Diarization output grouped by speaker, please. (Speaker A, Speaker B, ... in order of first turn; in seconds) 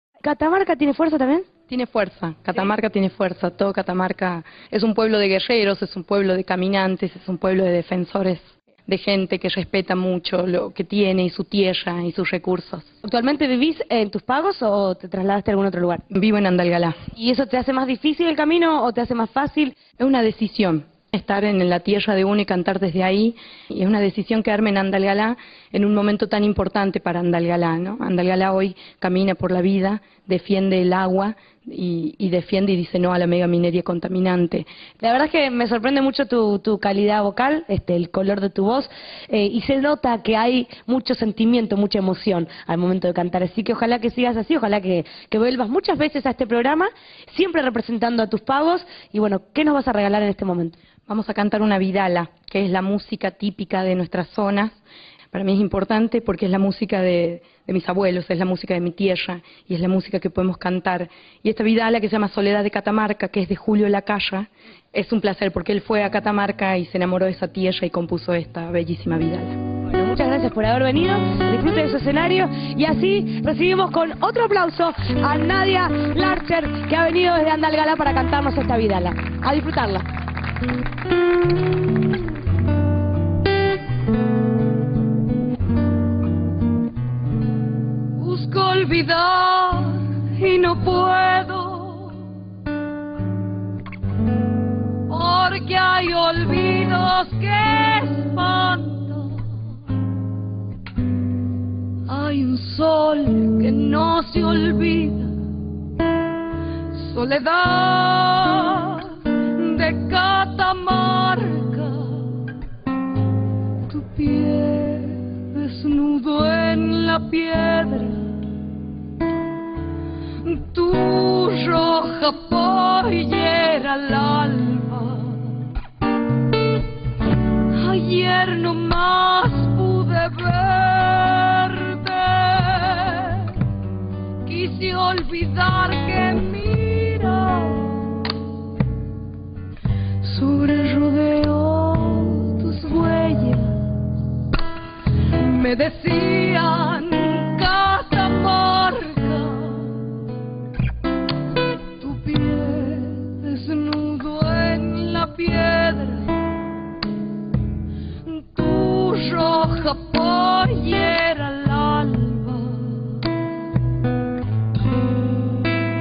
Speaker A: 0.2-1.6, 13.0-16.0, 17.1-19.9, 35.0-50.8, 69.8-80.0
Speaker B: 1.6-12.9, 16.1-17.0, 19.9-34.7, 51.1-54.8, 55.3-69.6
Speaker C: 88.2-92.2, 95.1-99.4, 102.1-105.3, 107.1-109.1, 109.6-112.3, 113.9-118.2, 120.4-125.5, 127.7-133.5, 134.4-137.8, 140.2-143.8, 145.4-150.0, 152.0-156.3, 158.3-163.0